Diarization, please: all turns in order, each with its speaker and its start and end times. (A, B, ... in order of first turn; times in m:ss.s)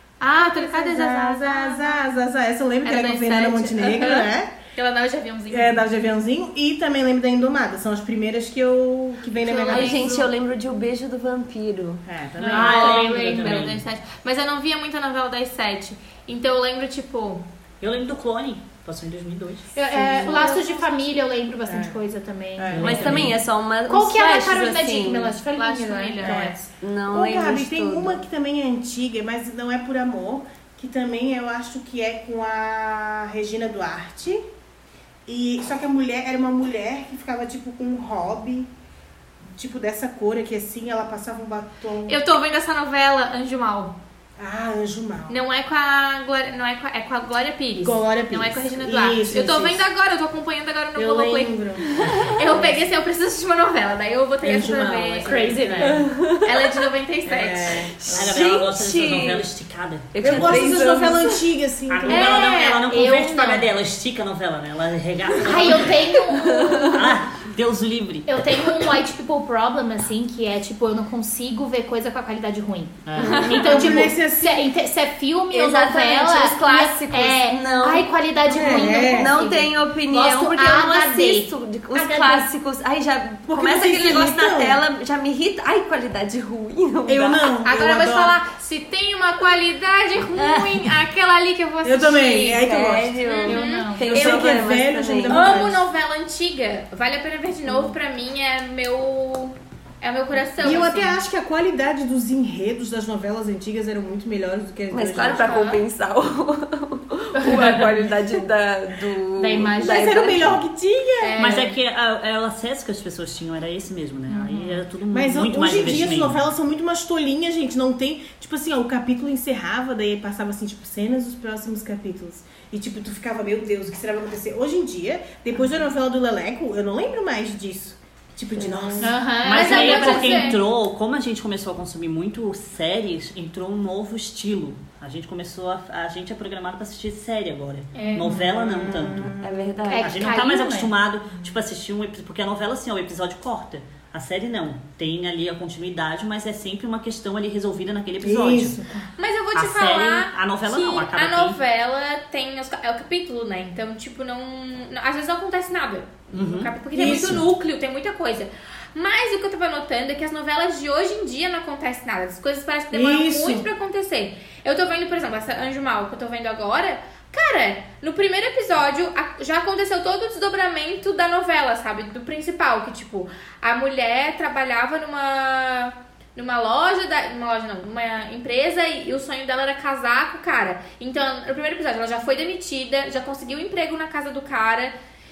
0:00.2-0:02.0 A
0:00.4-0:04.5 B
0:02.8-0:05.8 A
0:05.5-0:10.0 B
0:09.4-0:10.3 A
0:09.6-0:12.0 C
0:12.1-0:13.1 B
0:12.4-0:17.5 A
0:12.5-0:13.8 D
0:17.8-0:19.8 D
0:19.7-0:23.0 E
0:19.9-0:20.6 B
0:20.1-0:20.5 C
0:21.7-0:22.0 B
0:22.6-0:23.4 B
0:22.7-0:23.4 D
0:22.8-0:25.4 C
0:23.9-0:26.6 E
0:25.5-0:26.5 A
0:26.2-0:34.4 B
0:26.8-0:28.2 C
0:35.2-0:38.7 B
0:39.5-0:42.2 B
0:42.1-0:44.0 A
0:44.4-0:45.4 B
0:45.3-0:51.6 A
0:47.8-0:49.8 B
0:51.0-0:52.8 B
0:52.0-0:52.4 C
0:52.4-0:55.6 A
0:54.4-0:56.1 B
0:55.2-0:56.1 E
0:55.8-0:56.8 C
0:56.4-0:57.9 A
0:57.2-0:58.4 B
0:58.0-0:59.5 C
0:58.1-1:00.9 D
1:00.1-1:01.5 C
1:00.2-1:02.5 B
1:01.9-1:06.2 D
1:02.1-1:03.6 E
1:02.3-1:03.6 A
1:05.4-1:07.0 E
1:06.3-1:07.1 C
1:06.8-1:08.9 D
1:08.3-1:22.5 E
1:13.0-1:13.9 D
1:13.2-1:14.1 C
1:13.4-1:14.7 B
1:15.5-1:27.6 C
1:18.5-1:19.3 B
1:23.5-1:24.8 B
1:27.1-1:28.4 B
1:27.6-1:32.7 A
1:31.8-1:33.2 B
1:32.6-1:35.6 C
1:33.2-1:34.6 A
1:33.4-1:34.1 E
1:34.1-1:35.8 B
1:35.3-1:41.2 A
1:40.6-1:45.6 B
1:44.9-1:50.6 C
1:45.3-1:45.8 A
1:47.4-1:48.0 E
1:49.4-1:50.5 E
1:49.8-1:51.4 B
1:51.2-1:51.8 E
1:51.4-1:56.4 D
1:54.3-1:54.8 E
1:55.1-2:09.3 B
2:08.5-2:09.1 C
2:09.0-2:10.6 E
2:09.4-2:19.4 D
2:09.5-2:10.6 A
2:17.9-2:18.3 A
2:18.0-2:18.3 E
2:18.2-2:19.7 B
2:19.4-2:20.3 C
2:19.9-2:20.9 E
2:20.0-2:28.8 D
2:28.2-2:29.1 B
2:29.2-3:04.9 A
2:29.5-2:31.6 D
2:36.3-2:37.4 D
2:36.9-2:37.4 B
2:42.9-2:43.7 B